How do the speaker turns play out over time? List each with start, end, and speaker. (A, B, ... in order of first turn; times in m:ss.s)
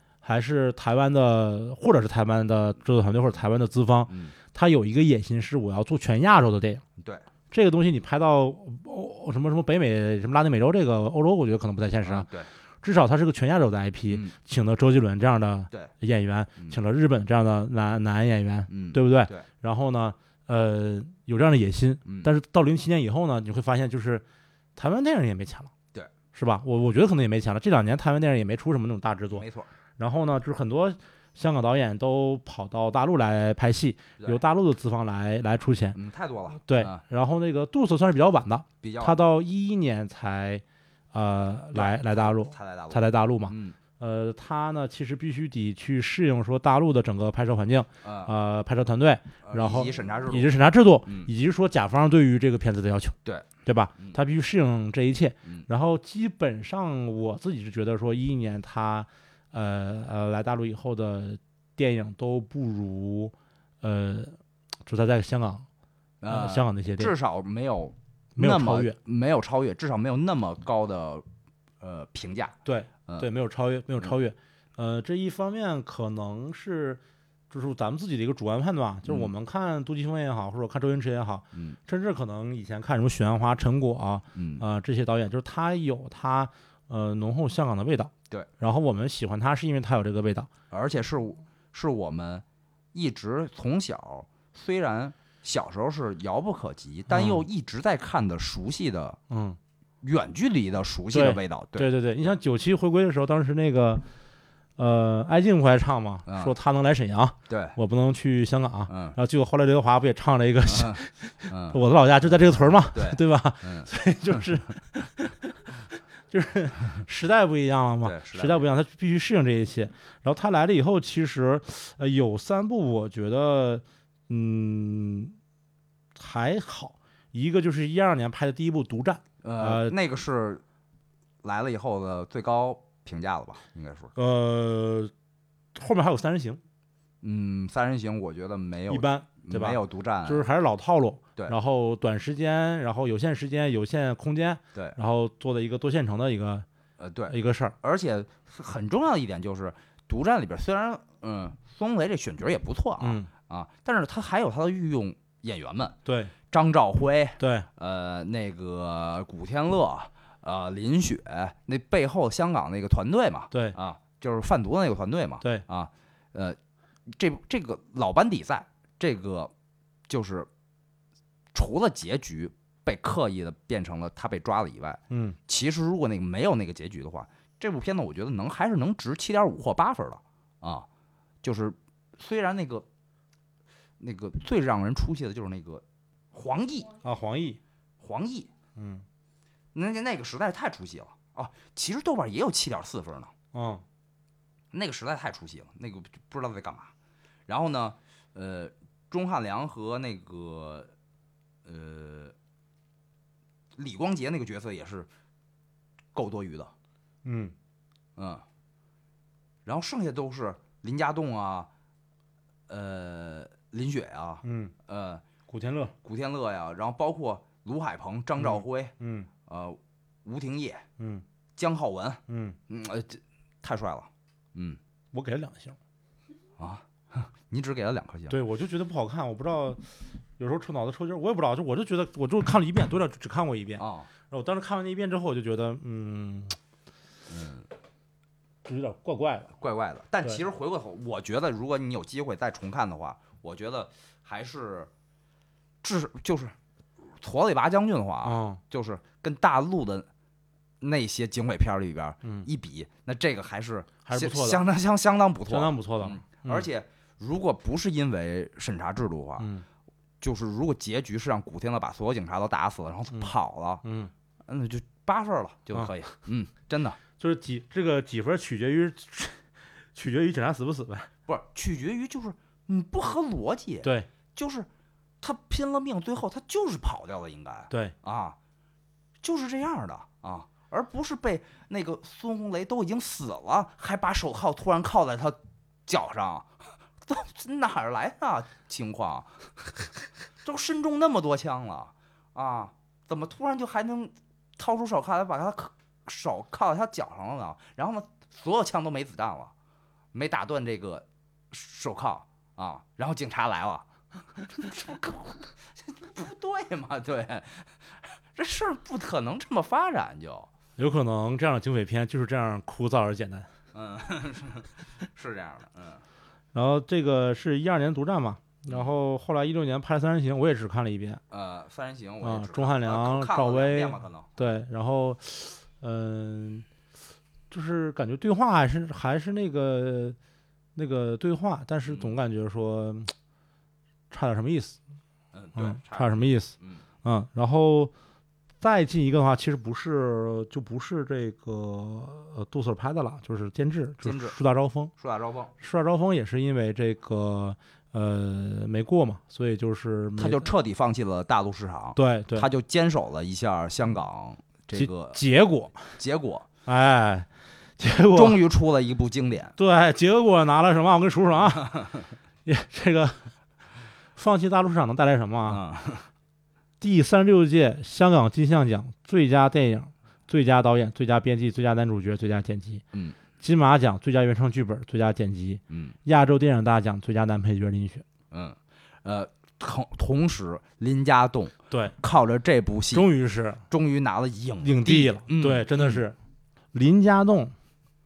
0:00.2-0:06.8 A
0:04.1-0:04.4 B
0:07.5-0:12.3 A
0:12.0-0:12.5 B
0:12.8-0:24.2 A
0:14.1-0:14.4 B
0:18.7-0:19.5 B
0:22.1-0:22.3 B
0:24.8-0:25.7 A
0:26.3-0:29.4 A
0:29.3-0:29.7 B
0:30.0-0:36.0 A
0:35.9-0:37.0 B
0:36.6-1:05.7 A
0:38.8-0:39.2 B
0:41.7-0:43.8 B
0:48.0-0:48.3 B
0:49.4-0:50.5 B
1:06.2-1:11.2 B
1:06.3-1:07.1 A
1:08.4-1:09.0 A
1:11.8-1:12.6 B
1:12.6-1:30.5 A
1:19.1-1:19.3 B
1:24.4-1:24.6 B
1:30.7-1:39.2 B
1:37.1-1:37.5 A
1:39.3-1:39.6 A
1:40.0-1:41.9 B
1:41.1-1:44.0 A
1:44.8-2:05.4 A
1:46.3-1:46.5 B
1:47.5-1:47.8 B
1:48.9-1:49.2 B
1:50.7-1:51.8 B
1:52.9-1:53.9 B
1:58.0-1:58.7 B
2:06.2-2:10.0 A
2:09.4-2:10.6 B
2:11.4-2:14.1 B
2:14.2-2:15.1 A
2:15.8-2:16.6 A
2:17.2-2:20.4 B
2:18.9-2:26.7 A
2:27.0-2:36.0 B
2:27.3-2:27.8 A
2:33.0-2:33.3 A
2:36.1-2:36.3 A
2:36.5-2:49.5 B
2:37.4-2:37.7 A
2:43.5-2:43.8 A
2:50.1-2:50.5 B
2:51.5-3:00.9 B
2:55.1-2:55.4 A
3:01.4-3:02.9 B
3:04.0-3:06.9 B
3:07.0-3:07.6 A
3:08.0-3:08.5 B
3:08.8-3:09.0 A
3:09.7-3:13.3 B
3:13.5-3:13.8 A
3:14.7-3:16.9 B
3:17.5-3:20.9 B
3:21.6-3:22.4 B
3:23.8-3:25.1 B
3:26.1-3:26.7 B
3:27.2-3:27.5 A
3:28.2-3:28.4 B
3:29.6-3:31.7 B
3:32.7-3:35.2 B
3:34.4-3:34.7 A
3:35.5-3:36.0 A
3:36.0-3:38.9 B
3:38.4-3:39.3 A
3:39.5-3:40.8 B
3:41.0-3:41.2 A
3:41.6-3:44.8 B
3:42.3-3:42.6 A
3:45.1-3:45.8 A
3:46.6-3:48.4 B
3:48.3-3:49.9 A
3:50.4-3:56.6 A
3:53.8-3:54.1 B
3:57.3-3:57.7 B
3:58.6-3:59.5 A
3:59.6-4:04.9 B
4:05.8-4:06.6 B
4:07.1-4:10.1 B
4:08.2-4:08.6 A
4:10.8-4:19.5 B
4:14.0-4:14.6 A
4:15.5-4:16.7 A
4:19.4-4:19.6 A
4:20.2-4:23.8 B
4:23.8-4:24.1 A
4:24.5-4:27.0 B
4:27.2-4:31.1 A
4:31.3-4:34.7 B
4:33.8-4:34.1 A
4:35.2-4:38.4 B
4:37.7-4:38.0 A
4:39.2-4:46.5 B
4:47.0-4:49.7 B
4:50.4-4:59.5 B
5:00.1-5:03.9 B
5:04.4-5:10.5 B
5:10.8-5:13.5 A
5:13.7-5:16.0 B
5:16.5-5:21.2 A
5:21.3-5:24.3 B
5:22.2-5:26.7 A
5:27.5-5:30.2 A
5:30.8-5:33.1 A
5:31.9-5:32.1 B
5:34.1-5:34.8 A
5:35.3-5:36.8 B
5:35.6-5:37.9 A
5:38.6-5:44.9 A
5:44.0-5:44.4 B
5:45.0-5:45.5 B
5:45.6-5:50.5 A
5:50.2-5:55.2 B
5:52.0-5:52.5 A
5:54.7-5:55.8 A
5:56.0-5:56.5 B
5:56.7-5:57.3 A
5:57.8-5:58.4 A
5:58.1-5:59.5 B
5:59.6-6:01.8 A
6:02.4-6:03.3 A
6:04.2-6:05.6 A
6:05.5-6:06.1 B
6:06.8-6:12.8 A
6:12.9-6:13.2 B
6:13.4-6:18.0 A
6:15.7-6:16.0 B
6:18.3-6:23.1 B
6:22.9-6:23.6 A
6:23.7-6:26.0 B
6:24.6-6:26.2 A
6:26.7-6:27.6 A